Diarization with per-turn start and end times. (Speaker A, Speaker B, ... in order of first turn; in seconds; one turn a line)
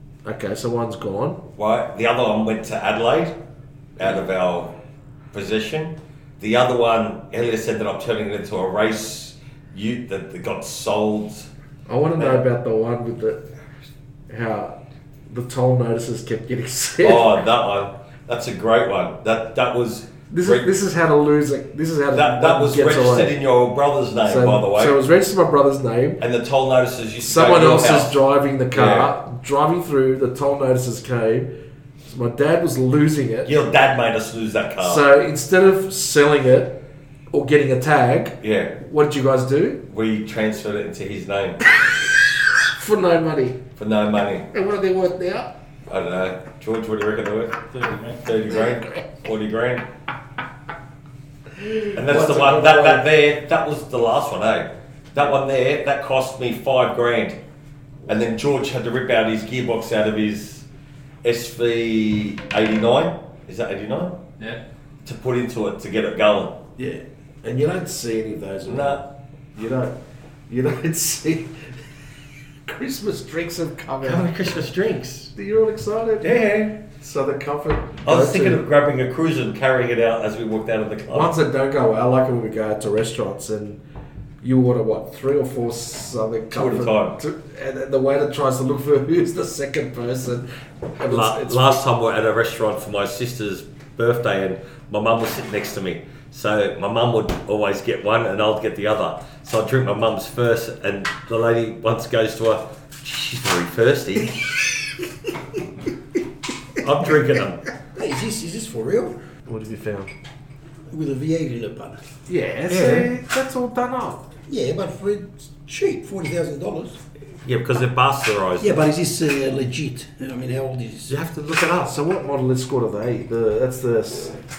Speaker A: 0.2-1.4
Speaker B: 1.6-3.4
Speaker B: 4.0-4.8
Speaker B: 5.3-11.5
Speaker A: 11.9-13.4
Speaker B: 12.2-12.4
Speaker A: 14.3-14.8
Speaker A: 15.3-17.4
Speaker B: 17.0-20.7
Speaker A: 20.3-23.4
Speaker B: 22.1-25.0
Speaker A: 24.2-26.2
Speaker B: 26.2-28.2
Speaker A: 27.2-31.5
Speaker B: 28.7-29.1
Speaker A: 32.1-33.5
Speaker B: 33.5-35.0
Speaker A: 34.8-36.8
Speaker A: 37.3-39.8
Speaker B: 38.4-38.8
Speaker B: 39.9-41.6
Speaker A: 41.7-42.1
Speaker A: 42.7-43.6
Speaker B: 43.8-44.5
Speaker A: 44.5-45.5
Speaker B: 45.9-49.9
Speaker A: 51.6-53.1
Speaker B: 51.9-57.4
Speaker B: 58.1-60.7
Speaker B: 61.2-64.3
Speaker B: 65.0-66.6
Speaker A: 66.8-69.9
Speaker B: 68.7-69.0
Speaker A: 70.5-71.6
Speaker A: 72.7-74.3
Speaker B: 74.0-75.3
Speaker A: 75.3-78.6
Speaker B: 76.2-76.8
Speaker B: 78.0-81.3
Speaker A: 81.1-83.8
Speaker A: 84.4-91.8
Speaker B: 86.5-87.2
Speaker B: 91.0-104.5
Speaker B: 106.8-107.6
Speaker C: 108.0-109.2
Speaker A: 109.5-110.1
Speaker C: 110.9-112.0
Speaker A: 112.3-114.2
Speaker B: 112.7-113.1
Speaker C: 114.5-117.0
Speaker B: 117.4-118.8
Speaker C: 118.6-121.2
Speaker B: 121.1-121.9
Speaker A: 121.8-124.4